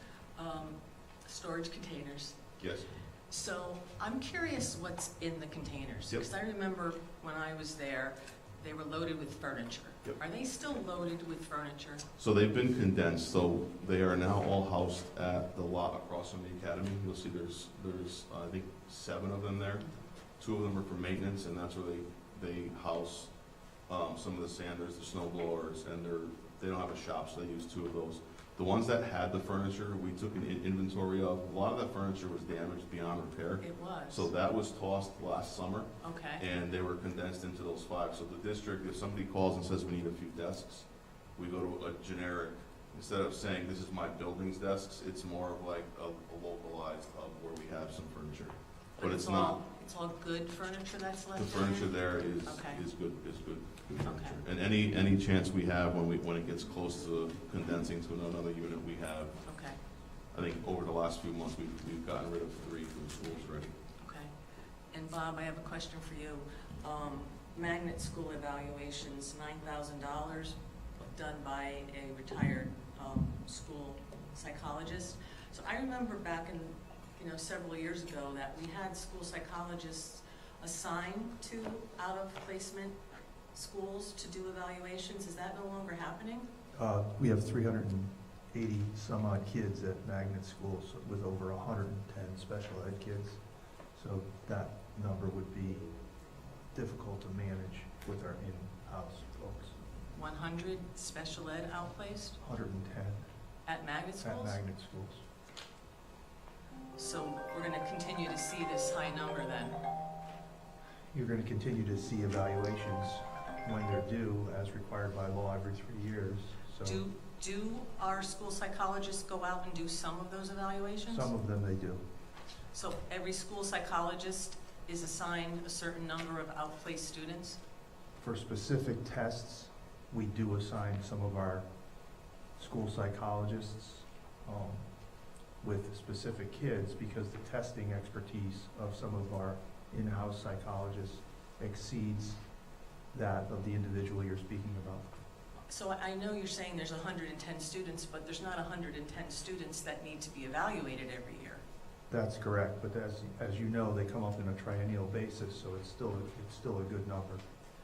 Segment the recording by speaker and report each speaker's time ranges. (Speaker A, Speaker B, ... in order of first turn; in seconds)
Speaker A: 0.3-2.6, 3.3-12.0, 33.6-34.3, 36.0-36.4, 49.0-52.8, 54.0-54.4, 59.4-59.8, 64.0-64.3, 64.9-83.0, 83.5-86.5, 100.1-102.4, 103.7-104.6, 106.9-109.8, 116.8-121.3, 122.7-127.6, 145.7-151.6
Speaker B: 2.6-2.9, 12.2-49.6, 51.3-63.7
Speaker C: 86.7-96.2, 96.7-99.8, 102.4-103.3, 104.2-105.2, 111.1-117.0, 121.1-122.0, 128.2-131.7, 132.6-134.8, 135.6-142.4, 143.1-145.1, 152.1-157.4